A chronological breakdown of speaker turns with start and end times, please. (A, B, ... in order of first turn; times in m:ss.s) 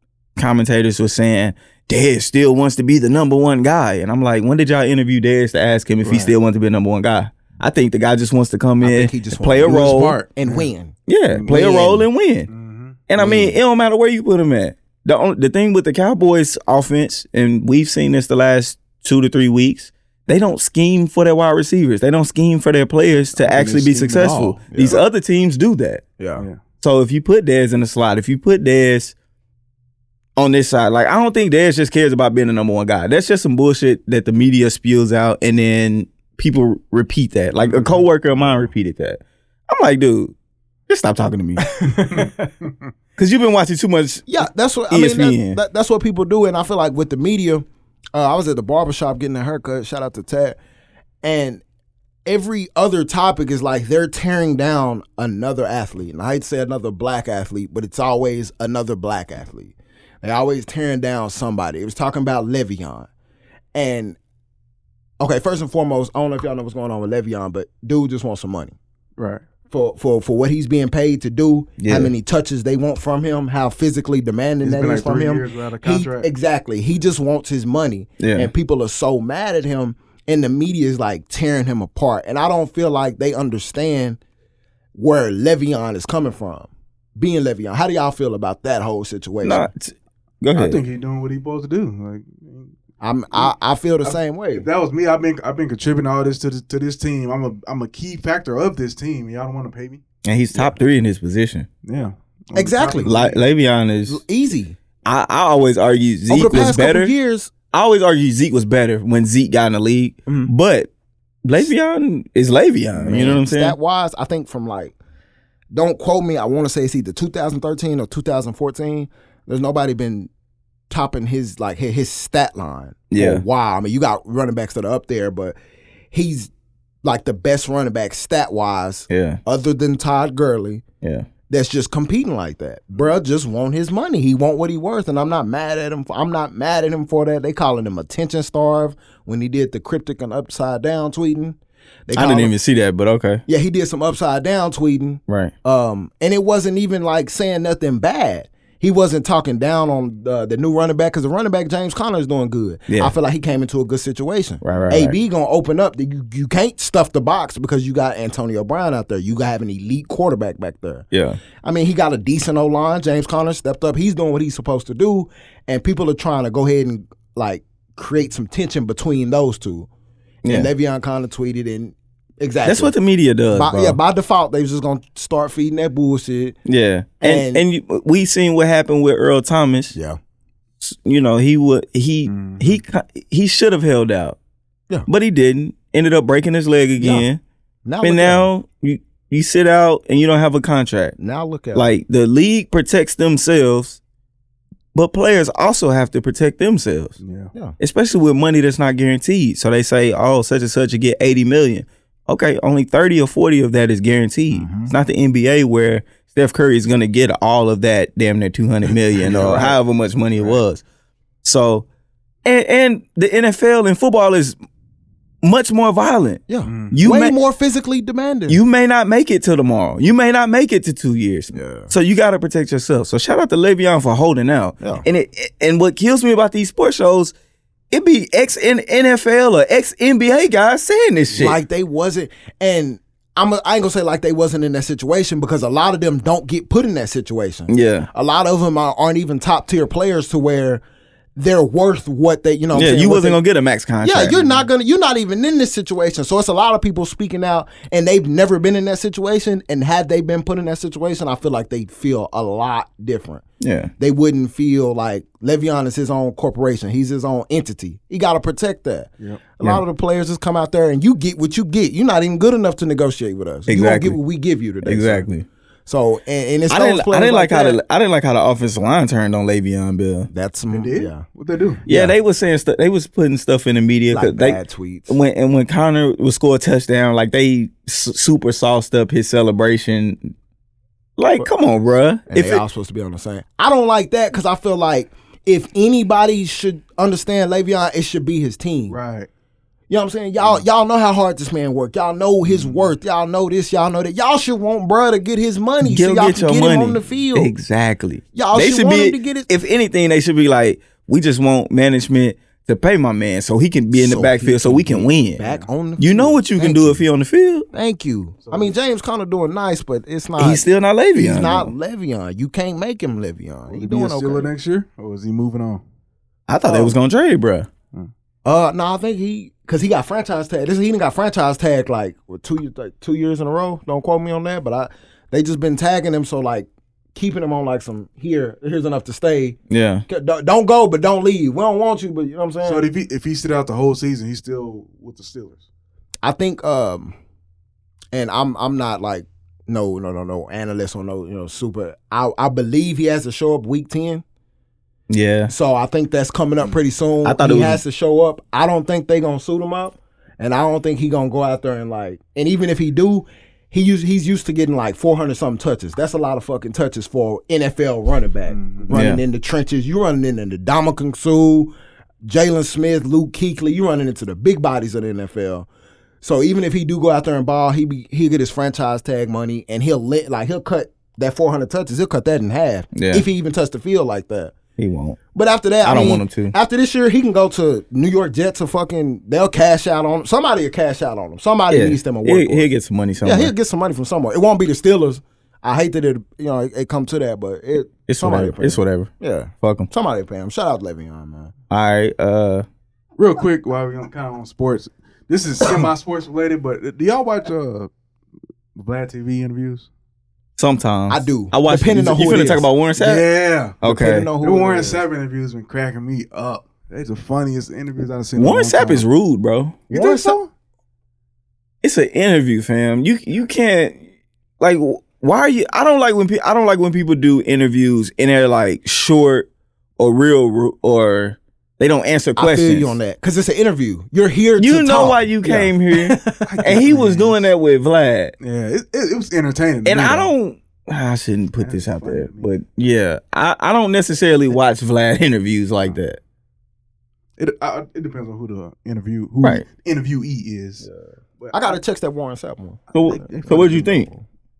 0:00.4-0:10.2 A
0:06.0-0:06.3 B
0:08.8-0:10.9 C
0:09.6-0:10.7 B
0:11.1-0:12.5 A
0:11.3-0:11.9 B
0:11.5-0:12.0 C
0:12.5-0:13.0 B
0:13.1-0:26.0 A
0:13.2-0:13.6 C
0:23.4-0:24.7 B
0:24.7-0:25.0 C
0:26.2-0:26.4 C
0:26.8-0:29.1 A
0:30.4-0:40.3 A
0:37.6-0:38.5 B
0:40.9-0:41.7 A
0:41.8-0:42.5 C
0:42.1-0:42.7 B
0:43.2-0:44.3 A
0:44.3-0:50.6 C
0:44.9-0:45.6 A
0:51.2-0:51.6 C
0:52.2-1:03.1 C
1:03.7-1:04.2 C
1:05.2-1:08.8 C
1:09.2-1:09.4 B
1:09.7-1:24.2 C
1:11.8-1:12.1 A
1:14.6-1:16.3 B
1:18.2-1:18.5 A
1:24.9-1:29.7 C
1:29.4-1:30.8 A
1:30.5-1:32.7 B
1:33.0-1:34.6 C
1:33.3-1:40.0 B
1:40.2-1:41.7 A
1:41.8-1:43.4 B
1:42.5-1:43.2 C
1:43.0-1:44.2 A
1:44.1-1:44.8 C
1:45.0-1:47.1 A
1:46.3-1:47.5 C
1:47.7-1:50.9 A
1:51.4-1:53.8 A
1:52.9-1:55.0 C
1:55.7-2:00.3 C
2:00.9-2:05.6 C
2:03.1-2:03.4 A
2:06.1-2:06.5 C
2:07.0-2:10.8 C
2:09.1-2:09.4 A
2:11.0-2:11.3 A
2:11.5-2:22.5 C
2:22.1-2:23.4 A
2:23.5-2:41.0 C
2:25.3-2:25.5 A
2:32.9-2:33.1 A
2:34.6-2:35.2 A
2:41.1-2:41.4 A
2:41.6-2:49.9 C
2:50.4-2:50.7 A
2:50.4-2:52.9 C
2:52.6-2:54.0 A
2:53.5-2:56.6 C
2:56.6-2:59.9 A
2:57.2-2:57.6 C
3:00.8-3:04.4 A
3:02.2-3:02.8 B
3:05.1-3:07.4 A
3:07.0-3:07.2 C
3:07.8-3:08.5 C
3:08.0-3:11.2 A
3:11.2-3:11.9 C
3:11.7-3:14.0 A
3:14.9-3:17.2 A
3:17.2-3:17.5 B
3:17.8-3:30.8 A
3:24.5-3:24.9 C
3:29.2-3:29.8 C
3:29.3-3:29.6 B
3:31.4-3:31.8 A
3:32.4-3:34.6 A
3:35.4-3:37.4 A
3:36.5-3:38.6 C
3:36.6-3:37.0 B
3:38.5-3:47.3 A
3:41.5-3:41.9 C
3:47.9-3:51.6 A
3:51.3-4:00.8 C
3:57.7-3:58.1 A
4:01.4-4:03.4 C
4:02.7-4:04.4 A
4:04.0-4:13.4 C
4:04.3-4:04.6 B
4:13.6-4:13.9 A
4:14.0-4:25.3 C
4:23.7-4:24.2 A
4:24.8-4:25.4 A
4:25.8-4:27.8 C
4:26.7-4:30.3 A
4:30.3-4:31.2 C
4:30.7-4:31.8 B
4:31.8-4:32.1 C
4:31.9-4:40.3 A
4:34.1-4:35.2 C
4:41.2-4:42.6 A
4:42.3-4:49.0 C
4:48.9-4:49.3 B
4:49.9-4:57.5 C
4:52.4-4:52.9 B
4:55.8-5:05.4 A
4:58.3-4:59.5 C
5:03.9-5:07.0 C
5:06.0-5:07.6 A
5:07.7-5:14.5 C
5:08.4-5:08.7 B
5:10.4-5:11.7 A
5:13.7-5:15.8 B
5:16.5-5:17.7 A
5:16.7-5:16.9 C
5:18.4-5:29.6 C
5:29.7-5:30.0 A
5:30.1-5:32.9 C
5:32.6-5:35.6 B
5:36.2-5:37.2 C
5:38.1-5:44.2 C
5:45.1-5:45.5 A
5:45.5-6:01.7 C
5:47.2-5:47.8 A
5:58.5-5:58.9 B
5:58.9-5:59.2 A
6:02.2-6:05.7 C
6:06.2-6:14.5 C
6:12.9-6:13.2 A
6:14.8-6:15.2 A
6:15.3-6:22.7 C
6:15.8-6:16.5 A
6:21.7-6:23.5 A
6:23.2-6:31.5 C
6:28.1-6:29.1 A
6:29.6-6:29.9 A
6:31.7-6:32.6 A
6:33.2-6:37.9 B
6:38.8-6:39.9 B
6:40.6-6:43.2 A
6:41.1-6:42.7 C
6:43.0-6:43.8 B
6:43.8-6:44.3 A
6:43.8-6:45.0 C
6:44.4-6:49.0 B
6:48.4-6:49.8 A
6:49.9-6:50.5 B
6:49.9-6:50.4 C
6:51.8-6:54.0 A
6:54.6-7:03.0 A
7:02.4-7:06.7 C
7:04.6-7:08.3 A
7:06.4-7:07.4 B
7:08.4-7:10.3 B
7:09.8-7:16.2 A
7:11.6-7:12.5 B
7:17.4-7:20.9 B
7:21.4-7:21.8 B
7:21.5-7:22.9 C
7:22.9-7:23.9 B
7:22.9-7:24.1 A
7:23.4-7:24.2 C